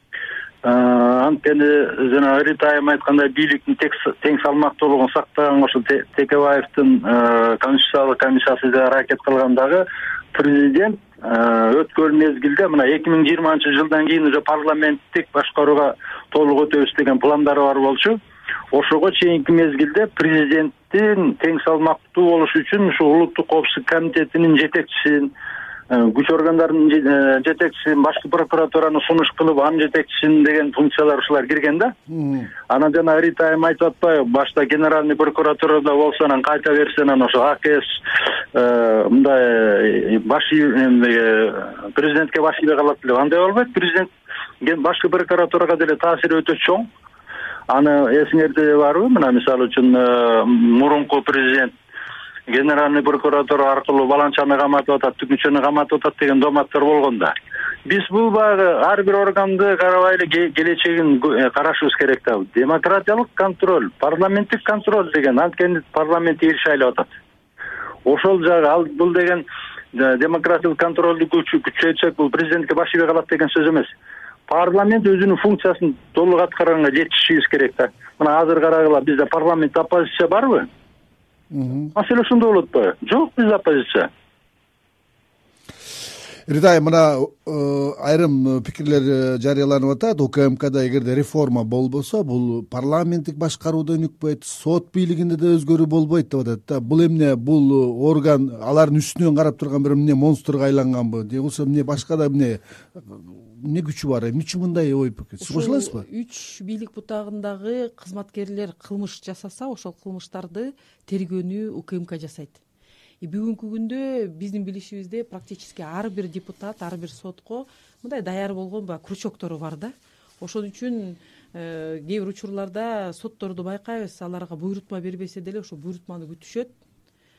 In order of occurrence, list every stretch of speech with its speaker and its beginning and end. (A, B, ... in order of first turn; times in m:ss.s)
0:00.6-0:18.2 A
0:18.7-0:25.3 A
0:25.9-0:31.9 A
0:32.1-0:32.5 B
0:32.7-0:44.1 A
0:44.6-0:46.9 A
0:47.7-0:51.8 A
0:52.5-0:57.3 A
0:57.9-1:07.1 A
1:08.1-1:13.9 A
1:14.5-1:20.7 A
1:21.5-1:21.9 B
1:22.0-1:24.1 A
1:26.5-1:46.0 B
1:45.4-1:52.6 C
1:53.2-2:06.7 C